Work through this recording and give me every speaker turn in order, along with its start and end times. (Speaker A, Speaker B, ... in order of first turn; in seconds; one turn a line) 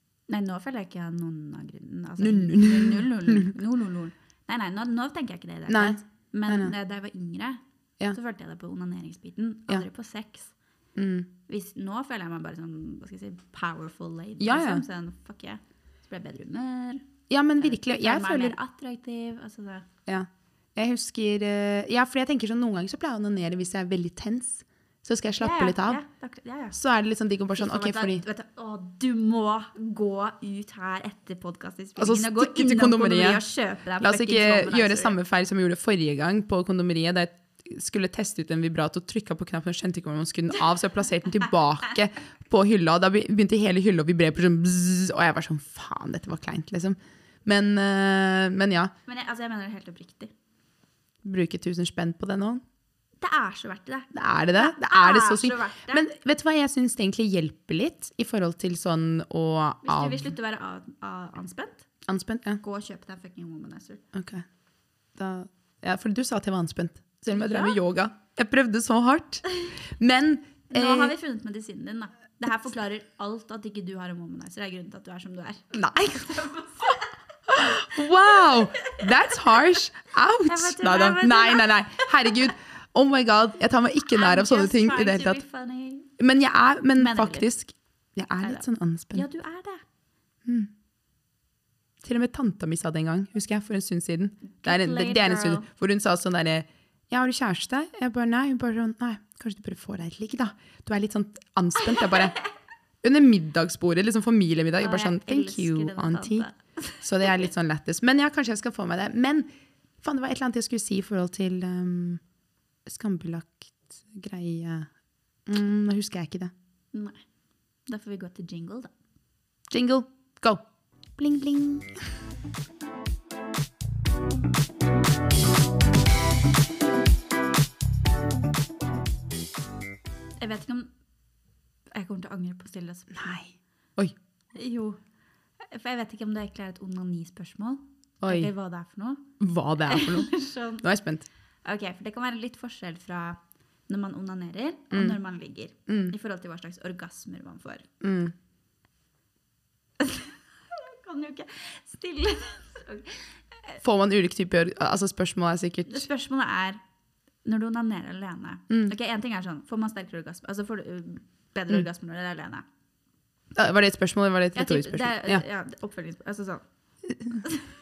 Speaker A: 0.3-7.6
Speaker B: 2.2-3.5
Speaker B: 5.7-6.7
Speaker A: 8.1-10.5
Speaker B: 11.0-11.3
Speaker A: 11.5-17.1
Speaker B: 14.4-14.8
Speaker B: 17.3-18.6
Speaker A: 17.6-19.9
Speaker B: 20.1-26.0
Speaker A: 25.4-26.8
Speaker B: 26.7-28.2
Speaker A: 27.6-35.2
Speaker B: 32.0-33.4
Speaker B: 34.0-48.9
Speaker A: 49.1-50.3
Speaker B: 51.2-52.6
Speaker A: 53.2-56.1
Speaker B: 54.1-60.3
Speaker A: 59.8-61.9
Speaker B: 62.1-62.6
Speaker A: 62.6-64.0
Speaker B: 64.1-64.5
Speaker B: 65.2-71.1
Speaker A: 67.3-67.8
Speaker A: 70.7-77.1
Speaker B: 75.7-76.3
Speaker B: 77.5-85.4
Speaker A: 78.2-79.0
Speaker A: 80.5-82.5
Speaker A: 84.1-86.1
Speaker B: 86.2-89.3
Speaker A: 87.0-87.5
Speaker A: 88.4-89.8
Speaker B: 92.0-102.4
Speaker A: 94.6-95.7
Speaker A: 101.9-102.3
Speaker B: 103.0-106.5
Speaker A: 104.8-107.5
Speaker B: 107.0-109.5
Speaker B: 110.0-112.2
Speaker B: 112.9-114.9
Speaker B: 115.5-116.5
Speaker A: 116.9-117.2
Speaker A: 117.9-118.9
Speaker B: 119.7-120.6
Speaker B: 121.2-122.0
Speaker A: 130.4-130.9
Speaker A: 131.9-133.4
Speaker B: 133.1-134.2
Speaker A: 134.5-135.0
Speaker A: 135.6-139.2
Speaker B: 138.2-138.5
Speaker B: 139.4-141.3
Speaker A: 139.9-140.8
Speaker A: 141.7-147.9
Speaker B: 144.9-145.2
Speaker B: 145.9-146.2
Speaker B: 148.0-148.3
Speaker A: 150.0-153.8
Speaker B: 153.8-156.1
Speaker A: 155.9-156.8
Speaker A: 157.4-162.7
Speaker B: 163.6-165.4
Speaker A: 164.6-166.7
Speaker B: 167.1-167.4
Speaker A: 167.4-167.7